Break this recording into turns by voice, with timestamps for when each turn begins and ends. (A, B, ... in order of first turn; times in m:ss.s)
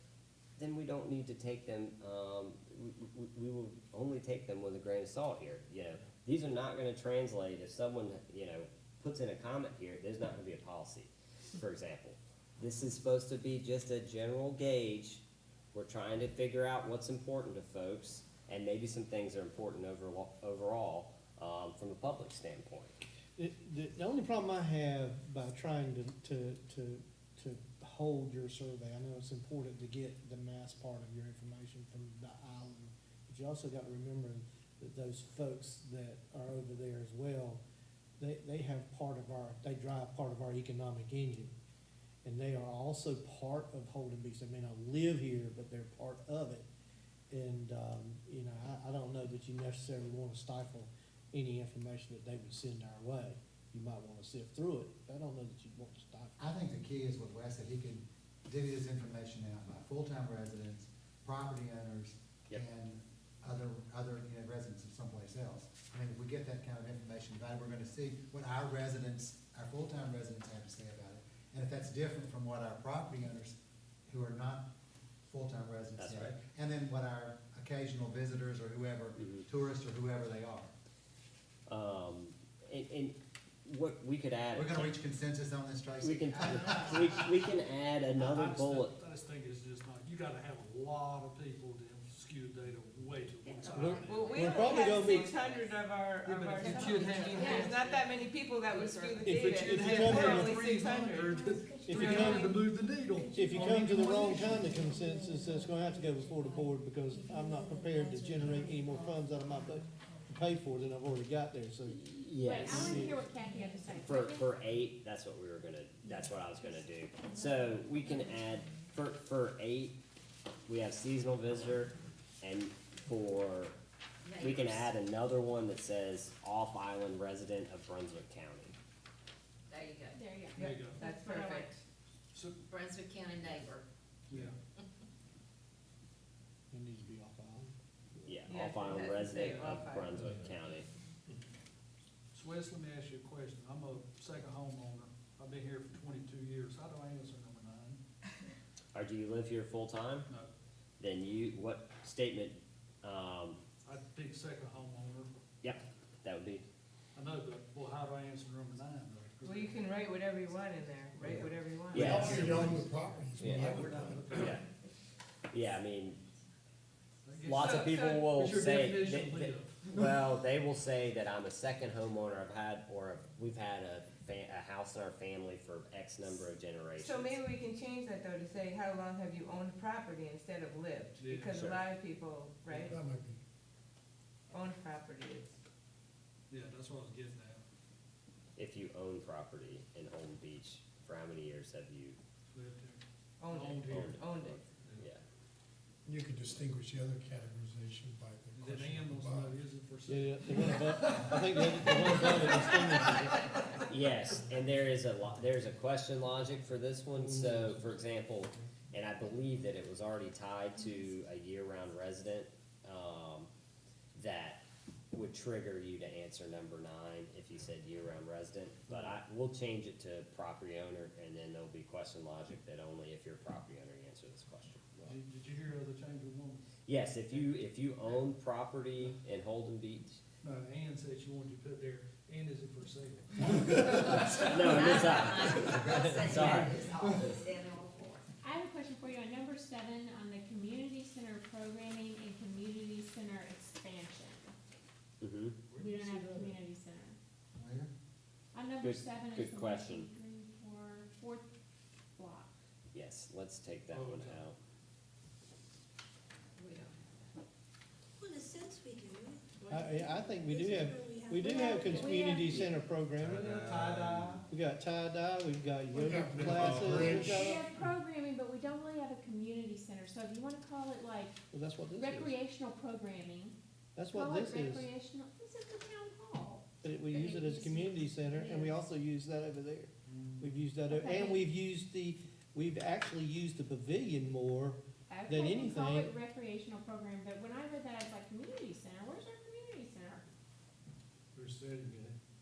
0:00.6-0:15.2 A
0:15.7-0:23.0 A
0:23.4-0:37.6 B
0:38.2-0:41.5 B
0:42.2-0:46.7 B
0:47.3-0:56.5 B
0:56.4-1:13.6 C
1:14.1-1:14.7 C
1:15.2-1:20.7 C
1:16.0-1:16.4 A
1:19.2-1:19.4 A
1:21.7-1:24.9 A
1:24.5-1:27.3 C
1:26.0-1:28.9 A
1:28.1-1:35.6 D
1:33.4-1:34.2 E
1:33.7-1:35.3 B
1:34.0-1:42.6 F
1:36.2-1:37.9 D
1:36.6-1:39.3 G
1:37.3-1:37.7 H
1:39.2-1:40.6 B
1:39.4-1:44.7 D
1:41.2-1:50.5 E
1:41.8-1:42.4 B
1:43.3-1:52.0 B
1:51.9-1:53.2 A
1:52.4-1:54.5 H
1:52.7-1:53.2 B
1:53.4-1:54.1 E
1:54.0-2:00.0 A
1:57.3-1:58.8 E
2:00.6-2:03.8 A
2:04.2-2:04.9 G
2:04.4-2:08.8 A
2:09.7-2:10.2 G
2:10.1-2:11.7 H
2:10.5-2:11.8 F
2:10.6-2:11.1 D
2:12.7-2:13.9 G
2:14.3-2:14.6 D
2:16.7-2:18.3 B
2:18.2-2:20.9 A
2:18.5-2:20.2 F
2:19.3-2:19.8 D
2:22.3-2:28.0 D
2:28.9-2:30.3 A
2:31.0-2:33.6 A
2:33.8-2:35.3 D
2:35.6-2:36.6 A
2:37.2-2:39.8 D
2:39.4-2:42.2 F
2:41.2-2:44.6 I
2:41.9-2:44.6 A
2:42.0-2:42.8 D
2:43.4-2:44.6 D
2:45.5-2:46.2 A
2:47.2-2:49.8 D
2:47.4-2:57.4 A
2:47.4-2:48.8 F
2:57.0-3:03.0 F
3:01.2-3:01.7 D
3:01.5-3:01.8 A
3:02.7-3:03.4 I
3:04.5-3:05.5 F
3:06.5-3:07.6 D
3:08.6-3:12.2 A
3:12.5-3:15.0 D
3:13.4-3:14.7 F
3:13.9-3:15.2 A
3:16.1-3:19.6 I
3:18.5-3:20.8 D
3:20.1-3:23.5 B
3:23.9-3:33.5 A
3:34.2-3:45.2 A
3:45.0-3:46.7 D
3:46.9-3:50.2 A
3:50.4-3:54.6 D
3:54.3-3:56.8 A
3:54.6-3:58.2 G
3:56.1-3:56.8 C
3:58.4-4:04.5 H
4:05.2-4:05.6 A
4:05.7-4:06.6 D
4:05.8-4:07.2 H
4:07.6-4:07.9 C
4:08.5-4:11.5 H
4:08.8-4:10.1 A
4:12.2-4:12.5 H
4:12.9-4:14.6 A
4:13.9-4:14.5 D
4:16.6-4:16.9 G
4:18.2-4:19.4 E
4:19.6-4:20.2 G
4:19.7-4:23.5 B
4:20.5-4:22.1 E
4:21.1-4:22.6 H
4:22.4-4:22.7 A
4:23.4-4:24.4 C
4:23.4-4:24.4 F
4:24.5-4:27.6 B
4:25.9-4:27.6 I
4:27.3-4:31.4 H
4:31.5-4:32.3 B
4:32.0-4:33.6 H
4:34.0-4:34.9 B
4:34.1-4:36.6 H
4:36.8-4:46.1 B
4:38.2-4:38.7 H
4:40.1-4:40.4 D
4:40.9-4:41.4 H
4:45.1-4:50.2 H
4:51.4-4:52.1 D